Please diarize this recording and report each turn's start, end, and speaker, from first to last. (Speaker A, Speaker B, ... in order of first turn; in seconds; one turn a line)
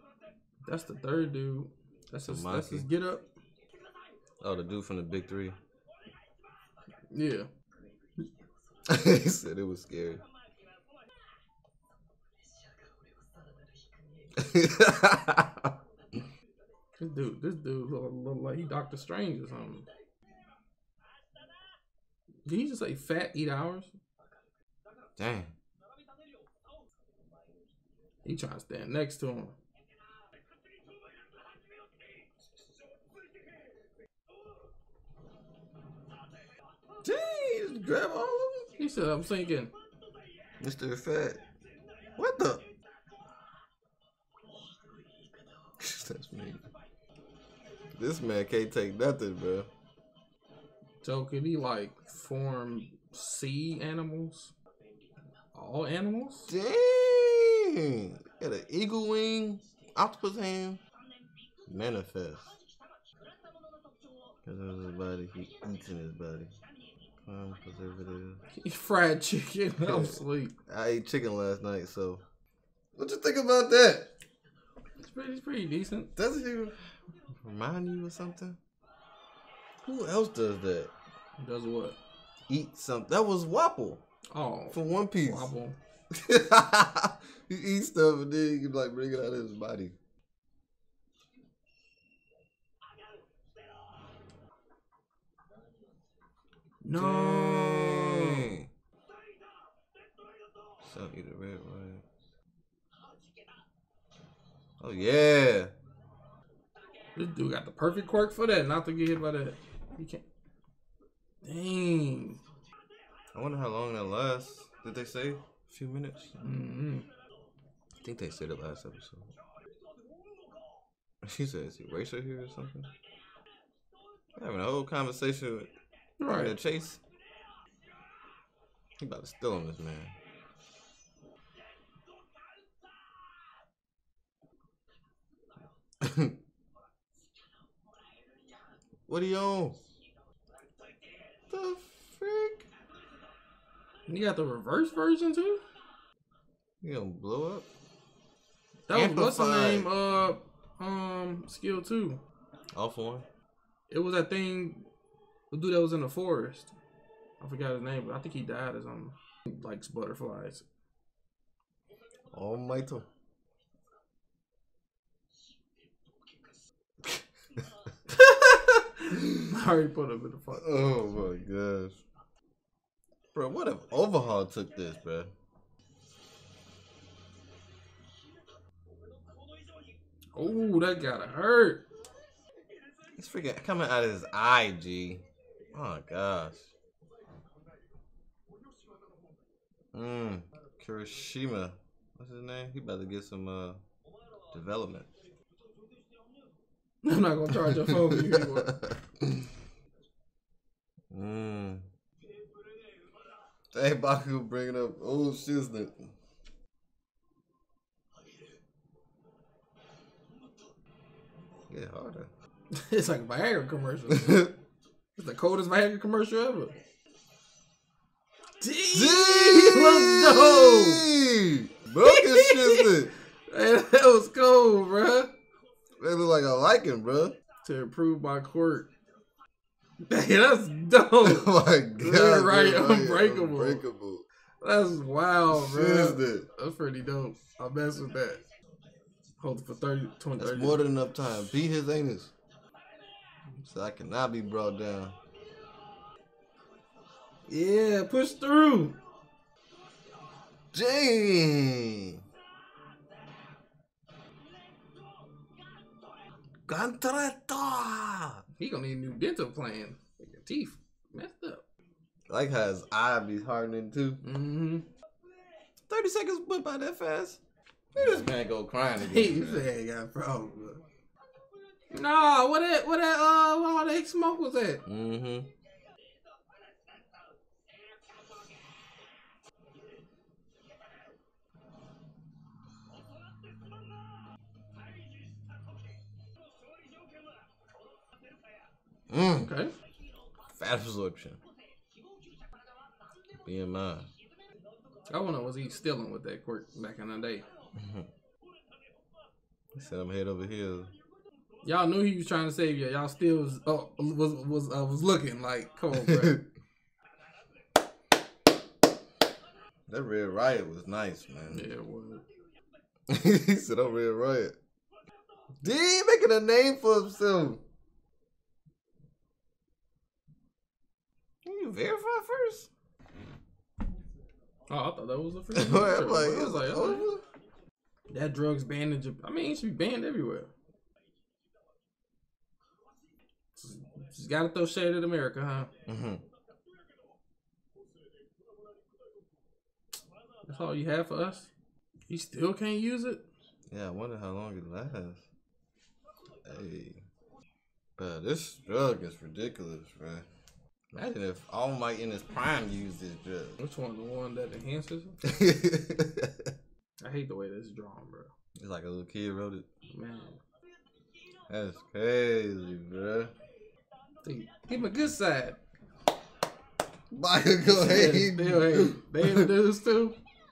Speaker A: 0.7-3.2
Speaker B: 2.2-2.9
Speaker B: 4.4-5.6
Speaker A: 7.1-7.5
Speaker B: 8.9-10.2
Speaker B: 14.3-15.7
Speaker A: 17.0-19.9
Speaker A: 22.4-23.9
Speaker B: 25.2-25.5
Speaker A: 28.2-29.5
Speaker B: 37.0-38.7
Speaker A: 38.8-39.7
Speaker B: 40.6-41.4
Speaker B: 42.2-42.6
Speaker B: 45.8-46.6
Speaker B: 48.0-49.7
Speaker A: 51.0-54.5
Speaker A: 55.5-56.5
Speaker B: 56.5-60.8
Speaker B: 61.6-62.6
Speaker B: 64.4-66.5
Speaker B: 67.2-68.4
Speaker A: 68.5-70.5
Speaker B: 69.8-72.2
Speaker B: 73.0-74.1
Speaker A: 75.0-76.1
Speaker B: 76.2-76.9
Speaker B: 77.4-78.6
Speaker B: 79.8-80.9
Speaker A: 81.4-82.0
Speaker B: 82.5-84.0
Speaker A: 84.3-85.8
Speaker B: 84.7-85.5
Speaker B: 86.1-89.9
Speaker A: 96.8-98.5
Speaker B: 97.0-98.7
Speaker B: 100.8-102.0
Speaker B: 104.8-105.7
Speaker A: 107.2-110.2
Speaker A: 111.4-112.4
Speaker B: 113.3-116.4
Speaker A: 116.4-117.1
Speaker B: 118.0-119.3
Speaker B: 121.2-122.9
Speaker B: 124.3-125.7
Speaker A: 126.2-126.5
Speaker B: 126.3-127.0
Speaker B: 129.0-130.1
Speaker B: 136.0-136.3
Speaker B: 139.1-139.8
Speaker B: 141.5-142.7
Speaker A: 144.1-145.6
Speaker B: 146.8-147.7
Speaker A: 148.9-152.2
Speaker B: 148.9-149.9
Speaker B: 152.7-153.3
Speaker A: 153.9-154.9
Speaker A: 155.5-156.7
Speaker A: 157.4-160.6
Speaker B: 162.3-163.1
Speaker B: 167.0-167.6
Speaker A: 168.1-170.8
Speaker B: 170.5-172.0
Speaker B: 173.3-175.3
Speaker A: 180.3-181.8
Speaker B: 183.2-186.7
Speaker B: 189.9-193.8
Speaker B: 194.5-195.1
Speaker A: 197.0-198.7
Speaker B: 197.5-199.5
Speaker B: 201.1-201.8
Speaker B: 203.7-206.1
Speaker B: 211.7-212.3
Speaker A: 212.7-214.5
Speaker B: 214.1-214.5
Speaker A: 215.2-216.7
Speaker A: 218.6-221.1
Speaker B: 218.9-223.1
Speaker A: 222.0-225.3
Speaker B: 226.0-227.3
Speaker A: 227.6-228.9
Speaker A: 230.1-233.8
Speaker B: 231.2-234.2
Speaker A: 234.6-238.4
Speaker B: 235.5-236.4
Speaker A: 239.4-240.8
Speaker B: 240.4-242.3
Speaker B: 243.6-245.2
Speaker A: 247.5-248.9
Speaker B: 250.7-252.2
Speaker B: 256.6-258.4
Speaker A: 258.6-261.6
Speaker B: 262.3-264.2
Speaker A: 264.2-264.9
Speaker B: 265.9-267.4
Speaker B: 267.9-269.7
Speaker A: 269.0-270.8
Speaker A: 271.9-274.8
Speaker B: 274.9-275.5
Speaker B: 289.1-289.5
Speaker A: 289.3-289.7
Speaker B: 290.5-291.4
Speaker B: 293.4-294.1
Speaker A: 295.1-297.4
Speaker B: 297.8-298.1
Speaker B: 299.7-300.9
Speaker A: 301.6-306.4
Speaker B: 305.9-306.4
Speaker B: 309.9-311.7
Speaker A: 311.5-312.2
Speaker B: 313.1-314.5
Speaker B: 315.6-317.6
Speaker B: 321.4-322.7
Speaker A: 324.7-327.0
Speaker B: 325.5-327.2
Speaker A: 328.1-330.5
Speaker A: 333.6-335.7
Speaker B: 335.9-336.2
Speaker A: 340.4-341.5
Speaker A: 342.1-343.2
Speaker B: 343.7-345.2
Speaker B: 346.4-347.0
Speaker B: 348.0-350.2
Speaker B: 350.9-353.6
Speaker A: 353.6-355.2
Speaker B: 355.2-356.5
Speaker A: 357.0-358.3
Speaker B: 358.6-359.6
Speaker A: 359.9-360.4
Speaker B: 361.5-363.3
Speaker A: 364.2-365.6
Speaker B: 367.1-369.5
Speaker A: 367.6-370.2